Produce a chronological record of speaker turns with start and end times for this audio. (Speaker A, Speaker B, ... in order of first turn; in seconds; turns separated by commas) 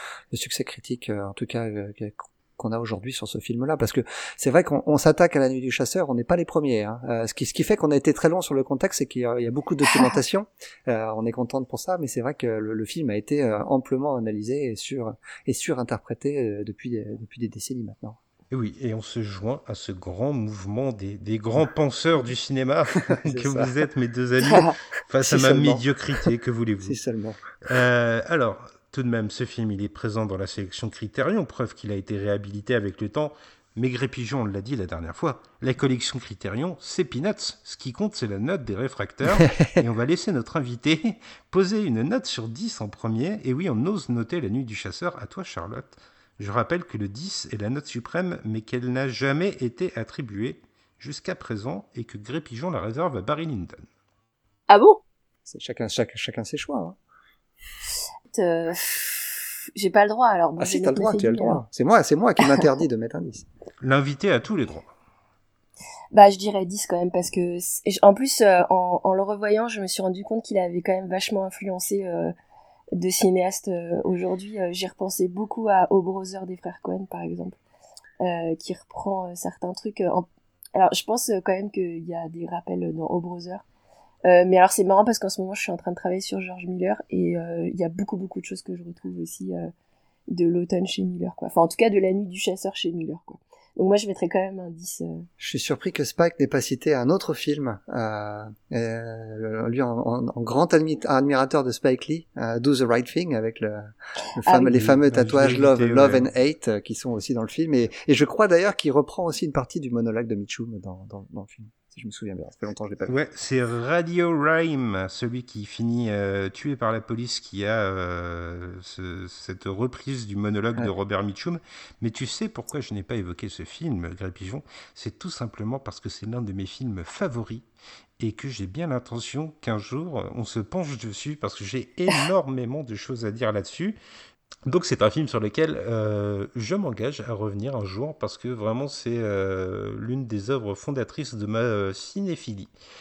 Speaker A: 0.3-18.2, Speaker B: 18.5-27.0, Speaker A: 23.1-23.7, Speaker C: 24.5-24.8, Speaker A: 25.2-26.3, Speaker A: 26.8-27.7, Speaker B: 27.6-53.9, Speaker C: 54.7-55.0, Speaker A: 55.5-57.0, Speaker C: 58.3-61.6, Speaker A: 60.6-63.5, Speaker B: 63.8-64.9, Speaker C: 66.1-72.3, Speaker C: 72.9-77.6, Speaker C: 78.2-83.6, Speaker C: 84.2-89.7, Speaker C: 90.3-95.3, Speaker A: 95.4-113.1, Speaker B: 104.5-106.2, Speaker B: 113.1-127.7, Speaker B: 128.2-134.0, Speaker B: 134.7-142.7